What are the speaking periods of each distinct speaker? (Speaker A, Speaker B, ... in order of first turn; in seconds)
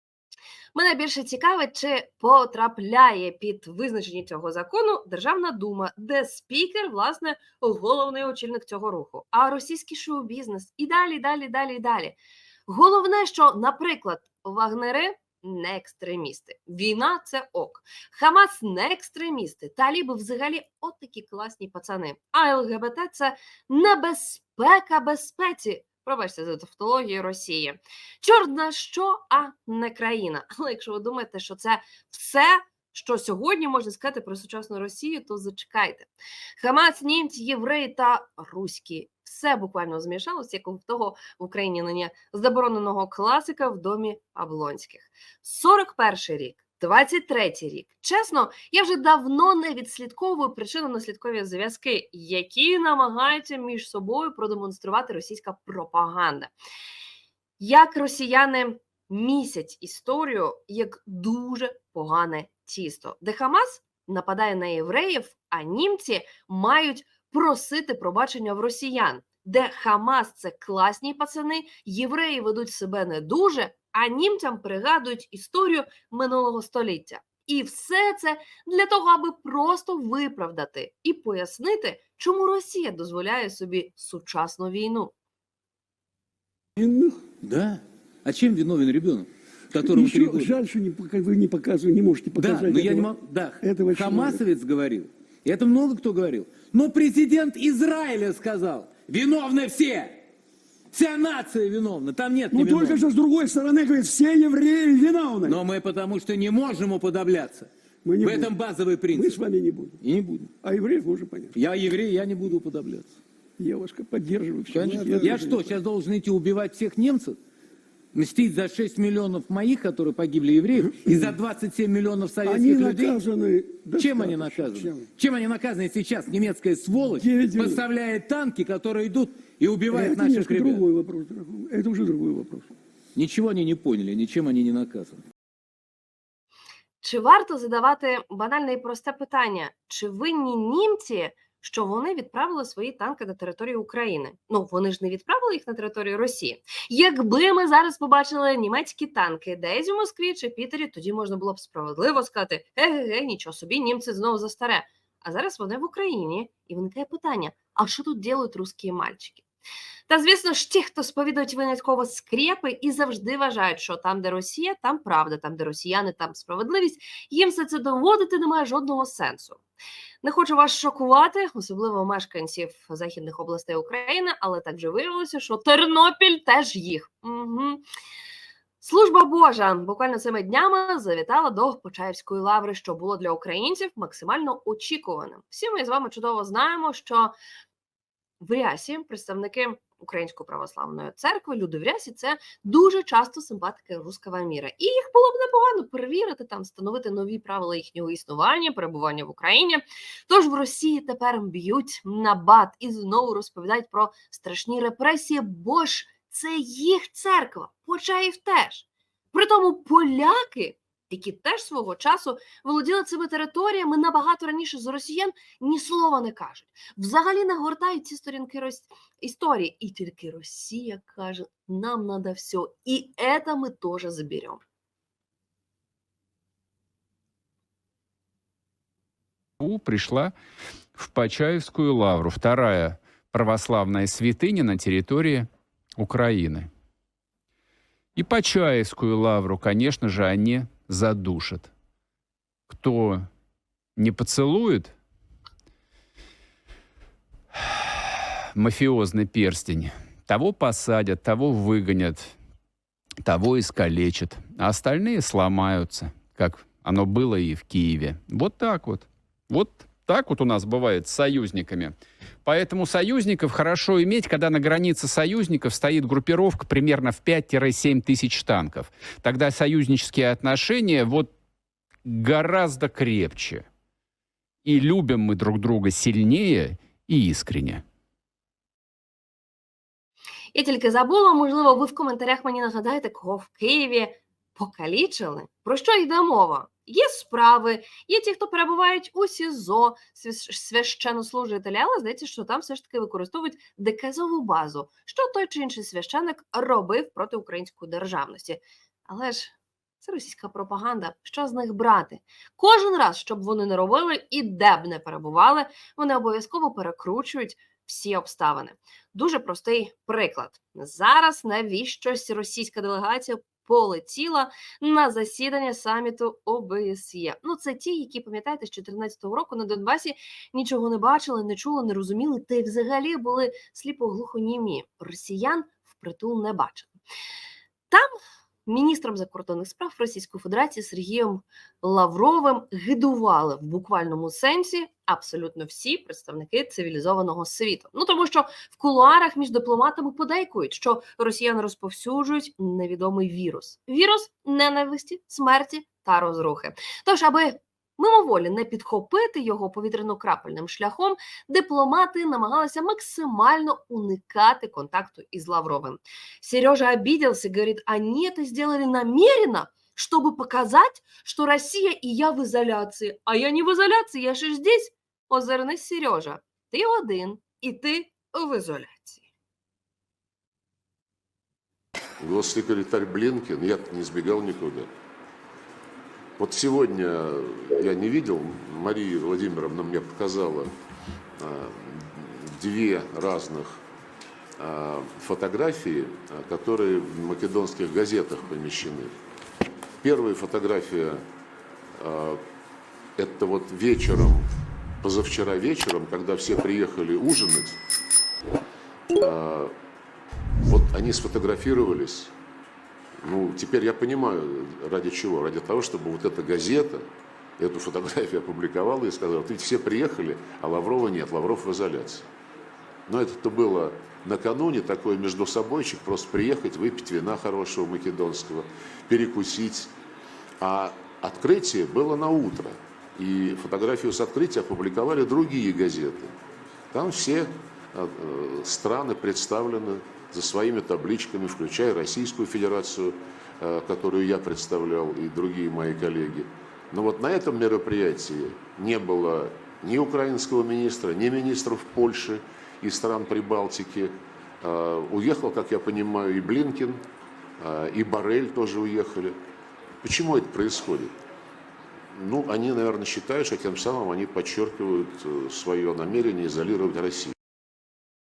Speaker A: 0.7-56.5, 57.6-85.1, 137.0-159.4, 160.1-169.6, 170.2-177.8, 178.8-187.3, 188.4-224.6, 280.5-326.9, 328.6-369.2
Speaker B: 86.8-87.2, 89.8-94.4, 102.5-105.6, 108.0-108.5, 109.1-110.0, 110.6-111.5, 113.6-115.8, 120.8-121.4, 122.4-125.1, 127.0-127.8, 129.9-132.7
Speaker C: 87.4-90.5, 92.3-100.2, 100.9-103.0, 105.4-107.7, 108.2-109.4, 110.0-110.5, 111.5-113.2, 114.7-117.4, 118.1-123.2, 124.0-130.8, 133.1-135.2
Speaker D: 229.6-230.3, 230.9-236.7, 238.2-241.7, 242.7-243.3, 243.9-244.9, 248.5-252.3, 253.2-271.3, 272.0-273.6, 274.6-277.8
Speaker E: 372.2-374.9, 376.4-380.7, 381.4-383.8, 384.6-389.1, 390.0-391.2, 392.0-392.4, 393.2-394.5, 395.0-397.8, 399.1-399.7, 400.6-402.3, 403.2-407.1, 407.6-412.2, 413.1-419.9, 420.6-426.3, 426.9-447.0, 447.6-449.4, 450.0-451.1, 452.1-457.3